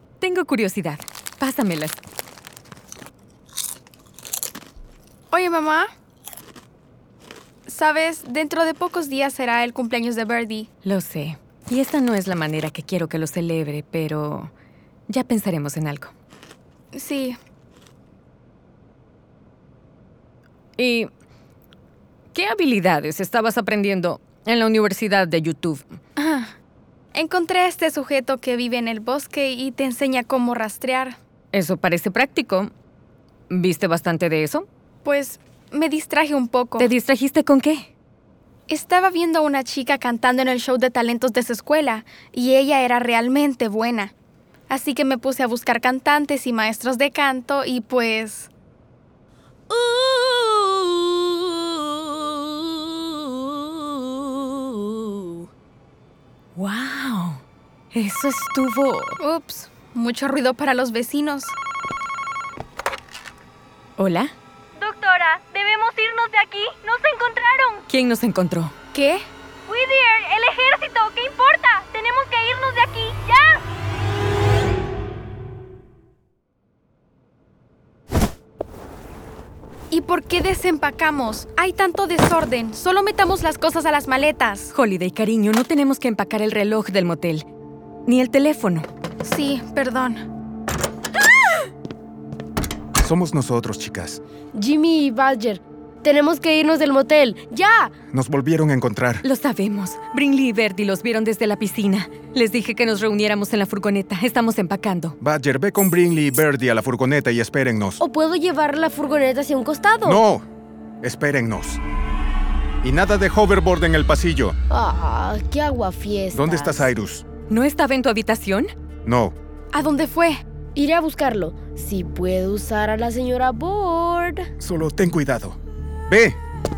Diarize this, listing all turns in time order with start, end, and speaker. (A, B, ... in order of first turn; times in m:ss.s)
0:00.2-0:02.0 A
0:05.3-0:05.9 B
0:07.7-0:10.7 B
0:10.8-0:14.5 A
0:15.1-0:16.1 A
0:16.9-0:17.4 B
0:20.8-0:21.1 A
0:22.3-0:26.0 A
0:26.2-0:26.5 B
0:27.1-0:31.2 B
0:31.5-0:32.7 A
0:33.5-0:34.7 A
0:35.0-0:36.9 B
0:36.8-0:37.9 A
0:38.7-0:44.1 B
0:44.7-0:48.5 B
0:49.7-0:50.4 C
0:56.6-0:57.4 A
0:57.9-0:59.2 A
0:59.2-1:01.5 B
1:04.0-1:04.3 A
1:04.8-1:07.8 C
1:07.9-1:08.7 A
1:08.9-1:09.2 B
1:09.7-1:13.6 C
1:19.9-1:24.7 B
1:24.7-1:27.5 A
1:28.1-1:28.9 A
1:29.2-1:30.2 B
1:33.0-1:34.2 D
1:34.5-1:38.0 E
1:38.1-1:39.2 D
1:39.2-1:45.2 A
1:45.2-1:48.0 D
1:48.0-1:50.2 E
1:50.0-1:50.4 D
1:51.0-1:51.8 D
1:52.8-1:54.6 D
1:54.7-1:56.9 E
1:56.3-1:57.3 D
1:57.5-1:58.7 A
1:59.0-1:59.4 D
1:59.7-2:00.4 B
2:00.8-2:04.5 E
2:04.6-2:06.4 D